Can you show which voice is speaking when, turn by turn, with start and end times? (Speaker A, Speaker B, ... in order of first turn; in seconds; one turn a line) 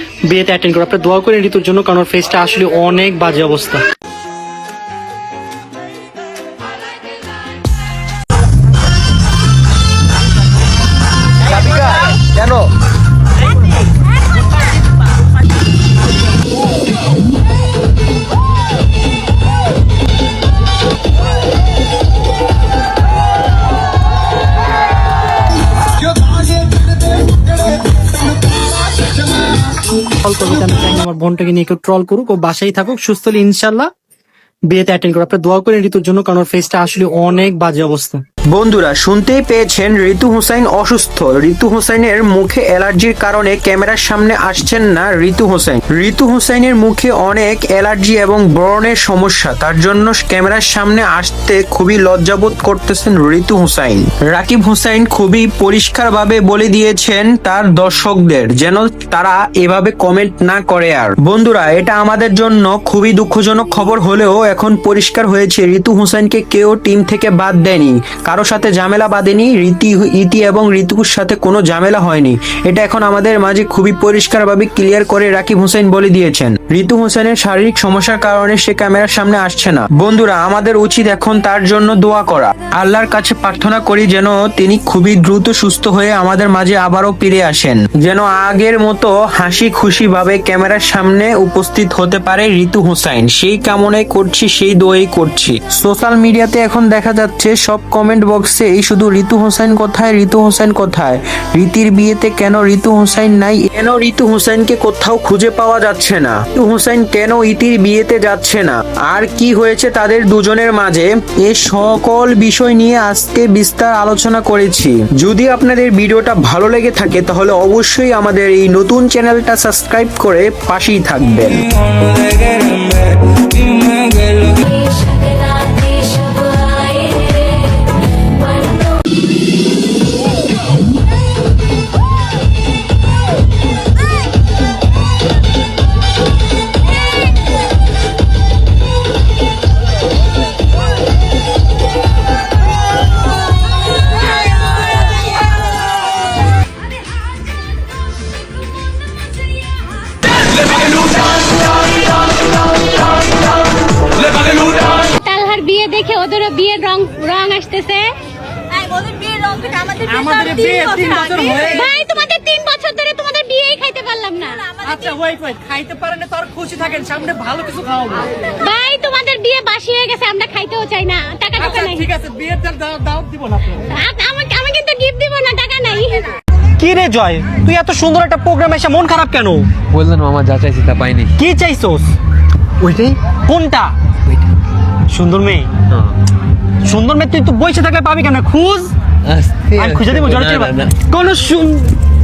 Speaker A: 0.2-3.8
Speaker B: 11.5-12.7
Speaker A: 30.2-33.9
Speaker A: 34.7-38.2
Speaker B: 38.5-121.7
Speaker C: 124.6-127.4
Speaker C: 154.5-158.1
Speaker A: 160.0-161.8
Speaker C: 161.5-164.9
Speaker A: 164.9-168.3
Speaker C: 168.6-172.1
Speaker A: 171.6-173.8
Speaker C: 173.9-176.3
Speaker A: 176.8-179.7
Speaker D: 179.9-181.4
Speaker A: 181.4-182.2
Speaker A: 182.8-183.9
Speaker A: 185.1-185.7
Speaker D: 185.9-186.2
Speaker A: 186.8-188.9
Speaker D: 189.2-190.9
Speaker A: 189.8-191.9